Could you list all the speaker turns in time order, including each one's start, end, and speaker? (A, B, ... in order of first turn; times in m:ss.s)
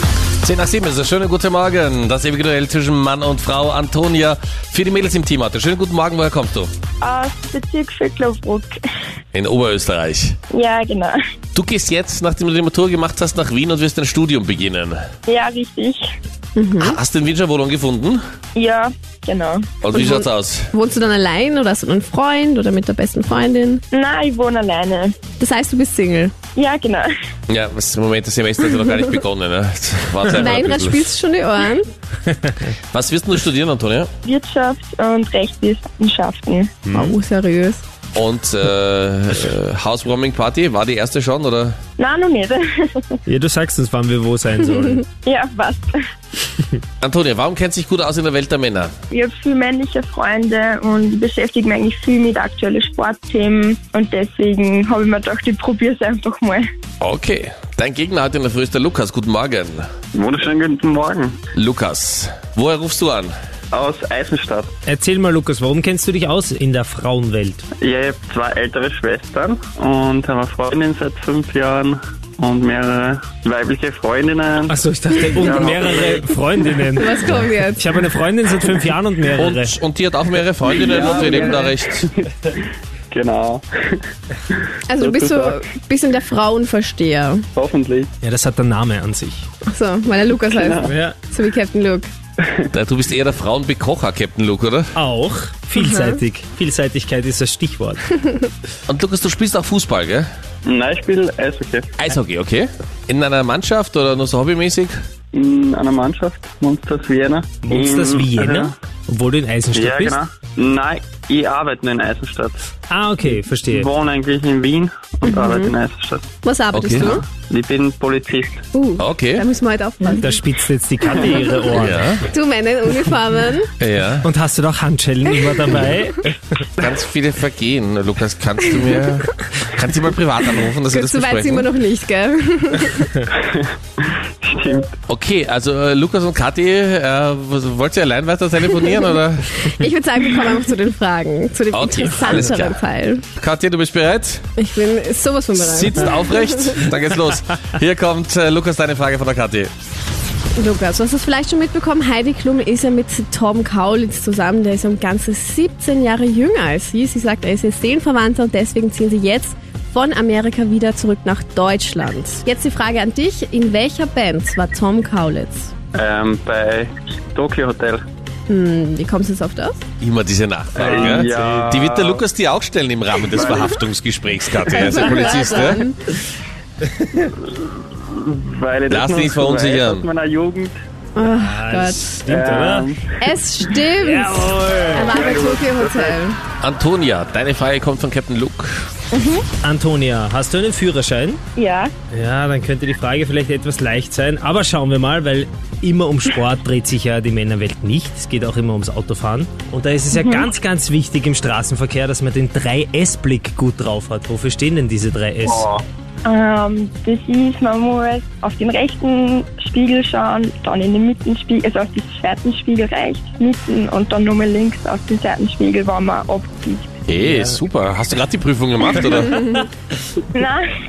0:00.4-0:06.7 A
0:07.0-0:08.7 B
0:09.3-0:10.4 A
0:10.5-0:11.2 B
0:11.6-0:15.0 A
0:15.3-0:16.0 B
0:16.6-0:17.0 C
0:16.8-0:18.2 A
0:18.6-0:19.7 B
0:19.8-0:20.7 A
0:19.9-0:23.8 C
0:23.9-0:25.2 B
0:25.4-0:26.3 C
0:26.6-0:27.1 B
0:27.5-0:31.0 A
0:30.4-0:31.9 C
0:32.9-0:34.1 A
0:34.2-0:36.7 B
0:36.9-0:37.1 A
0:36.9-0:37.8 C
0:38.2-0:41.8 A
0:42.0-0:43.1 B
0:43.3-0:45.1 D
0:45.2-0:45.9 B
0:47.0-0:48.9 A
0:49.1-0:56.6 B
0:57.0-0:59.9 A
1:00.1-1:01.4 E
1:01.6-1:03.3 A
1:03.7-1:04.7 E
1:04.9-1:07.7 D
1:07.8-1:16.3 E
1:14.7-1:19.8 D
1:16.9-1:17.9 C
1:19.4-1:22.1 A
1:20.7-1:22.6 E
1:23.1-1:24.0 E
1:24.9-1:27.4 C
1:25.0-1:25.6 E
1:27.6-1:28.1 E
1:28.2-1:29.5 D
1:29.6-1:32.1 C
1:30.5-1:30.9 E
1:30.8-1:31.2 D
1:32.4-1:32.7 E
1:32.7-1:34.9 A
1:35.0-1:38.0 D
1:35.8-1:36.2 C
1:38.9-1:40.3 A
1:40.6-1:41.9 E
1:42.0-1:45.0 A
1:45.3-1:48.8 E
1:47.6-1:50.2 D
1:49.7-1:52.6 E
1:52.9-1:53.9 D
1:53.2-1:56.3 E
1:55.2-1:55.7 C
1:56.4-1:57.2 C
1:56.7-1:57.1 A
1:57.0-1:58.6 E
1:58.7-2:00.5 C
1:59.0-1:59.4 A
2:00.2-2:02.0 D
2:01.0-2:03.7 C
2:01.7-2:02.2 A
2:03.8-2:04.3 A
2:04.2-2:06.6 D
2:06.8-2:11.7 A
2:10.9-2:13.3 C
2:13.5-2:14.9 E
2:15.1-2:19.5 A
2:19.6-2:23.2 C
2:21.7-2:22.8 A
2:23.4-2:24.4 A
2:24.6-2:26.8 C
2:25.6-2:29.7 A
2:30.6-2:45.7 C
2:45.9-2:48.0 E
2:48.5-2:49.8 C
2:50.0-2:55.8 A
2:50.8-2:52.2 E
2:50.9-2:51.5 D
2:53.3-2:53.7 E
2:54.7-2:56.0 C
2:57.4-3:00.8 E
2:58.9-3:00.1 A
3:01.2-3:02.2 C
3:01.2-3:02.9 D
3:02.2-3:03.2 E
3:03.2-3:06.4 C
3:04.0-3:05.3 D
3:05.1-3:06.2 E
3:06.6-3:08.8 A
3:09.1-3:09.4 B
3:09.6-3:11.4 D
3:11.6-3:11.9 B
3:12.1-3:25.7 D
3:25.4-3:25.8 E
3:26.2-3:37.0 B
3:37.1-3:39.4 A
3:37.2-3:37.6 D
3:39.0-3:39.6 D
3:40.3-3:40.6 B